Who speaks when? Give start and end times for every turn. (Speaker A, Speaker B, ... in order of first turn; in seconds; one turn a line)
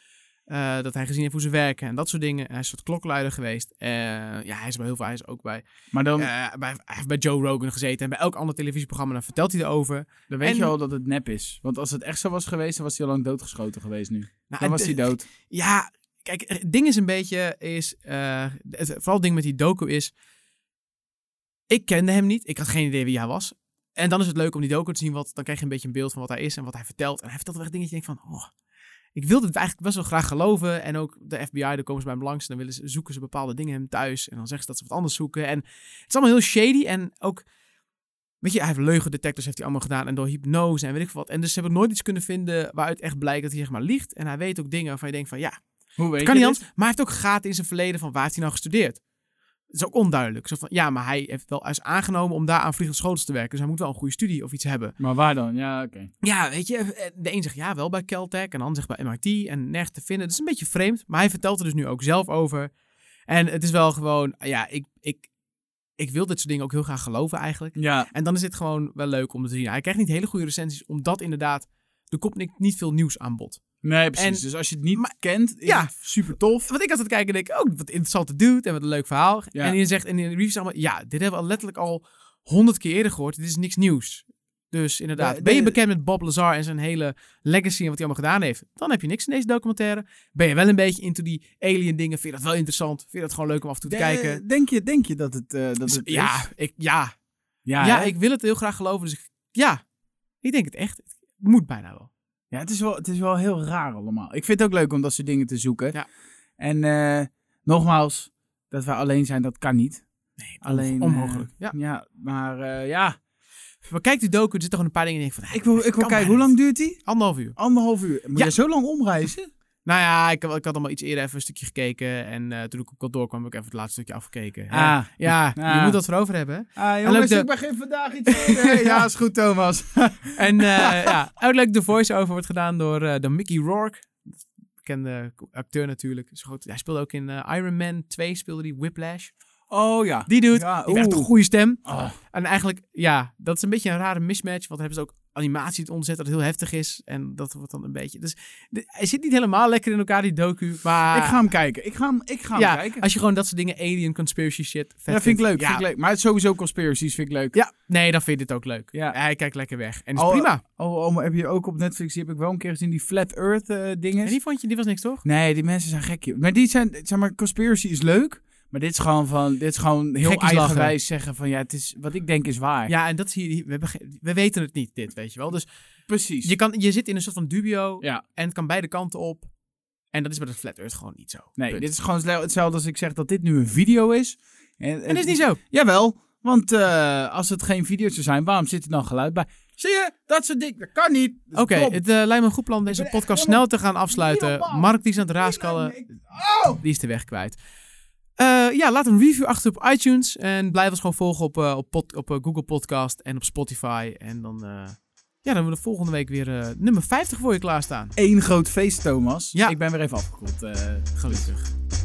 Speaker A: 0.5-5.6
Speaker B: 5.9-6.3
Speaker A: 6.1-10.7
Speaker B: 10.3-15.2
Speaker A: 14.5-20.1
Speaker A: 21.7-28.5
Speaker A: 29.1-37.4
Speaker A: 38.4-45.5
Speaker B: 46.0-46.6
Speaker A: 46.2-49.0
Speaker A: 49.7-54.9
Speaker B: 55.0-56.1
Speaker A: 56.2-62.7
Speaker A: 63.3-65.3
Speaker A: 66.0-73.6
Speaker B: 67.8-68.1
Speaker B: 73.8-76.7
Speaker A: 74.2-94.4
Speaker B: 85.2-85.8
Speaker B: 93.8-96.5
Speaker A: 95.8-97.1
Speaker B: 97.7-98.1
Speaker A: 97.8-99.8
Speaker A: 100.4-102.1
Speaker B: 102.5-106.0
Speaker B: 106.6-110.0
Speaker A: 110.4-111.7
Speaker B: 110.6-113.2
Speaker A: 113.8-117.6
Speaker B: 115.5-119.5
Speaker A: 119.8-127.5
Speaker B: 124.7-126.0
Speaker B: 126.8-131.2
Speaker A: 128.3-129.1
Speaker A: 130.4-139.3
Speaker B: 139.7-141.3
Speaker A: 140.3-151.4
Speaker B: 141.8-142.1
Speaker B: 151.1-153.0
Speaker A: 152.5-155.8
Speaker B: 155.1-157.6
Speaker A: 157.5-160.6
Speaker B: 160.2-164.4
Speaker A: 164.2-165.2
Speaker B: 165.2-172.9
Speaker A: 170.2-170.9
Speaker A: 172.9-175.7
Speaker B: 176.1-176.5
Speaker A: 176.4-179.5
Speaker A: 180.1-181.9
Speaker B: 181.6-192.0
Speaker A: 185.1-185.6
Speaker A: 191.5-196.0
Speaker B: 192.9-196.8
Speaker A: 196.8-197.6
Speaker A: 198.4-208.1
Speaker B: 208.2-211.5
Speaker A: 211.2-211.7